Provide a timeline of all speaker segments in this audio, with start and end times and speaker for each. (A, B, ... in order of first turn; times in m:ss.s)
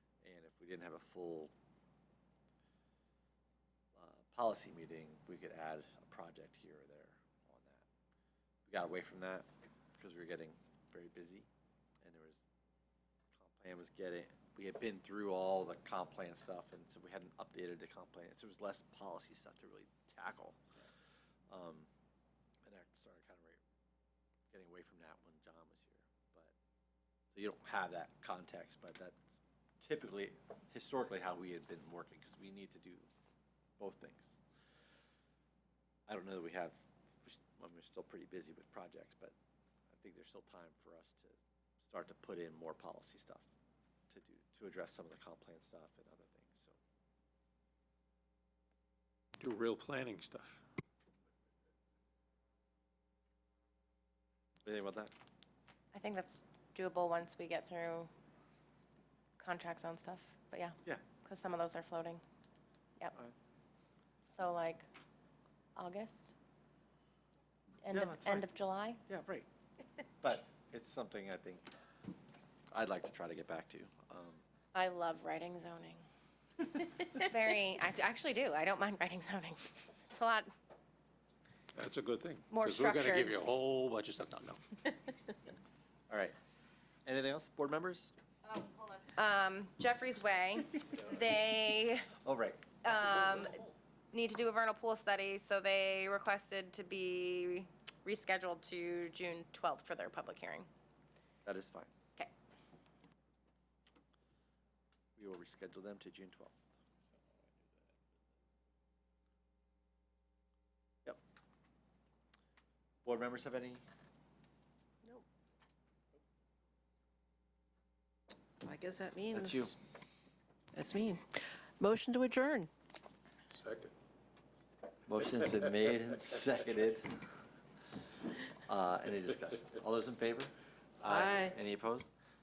0:00.2-0:01.5 A
0:04.0-0:07.9 A
0:08.7-0:11.5 A
0:12.0-0:12.5 A
0:13.3-0:20.6 A
0:21.5-0:21.9 A
0:22.6-0:23.6 A
0:24.5-0:26.5 A
0:27.3-0:33.1 A
0:33.8-0:34.4 A
0:36.1-0:39.4 A
0:39.9-0:43.5 A
0:44.1-0:46.8 A
0:49.4-0:50.6 B
0:54.6-0:55.1 A
0:55.9-0:58.1 C
0:59.4-1:02.2 C
1:04.3-1:04.8 C
1:05.8-1:06.3 C
1:07.8-1:09.0 C
1:07.9-1:08.5 A
1:09.1-1:09.5 A
1:10.2-1:11.7 A
1:12.7-1:14.4 A
1:14.7-1:16.0 C
1:16.6-1:20.5 C
1:21.8-1:24.6 B
1:22.5-1:23.4 C
1:26.1-1:26.4 A
1:27.1-1:28.1 A
1:28.5-1:32.1 C
1:32.2-1:32.9 A
1:32.8-1:40.7 C
1:41.4-1:41.9 A
1:45.2-1:46.6 A
1:53.0-1:53.8 A
1:58.6-1:59.7 D
1:59.3-1:59.8 A
2:00.7-2:02.7 D
2:03.6-2:03.9 B
2:05.1-2:07.2 A
2:08.5-2:12.1 A
2:11.1-2:11.6 D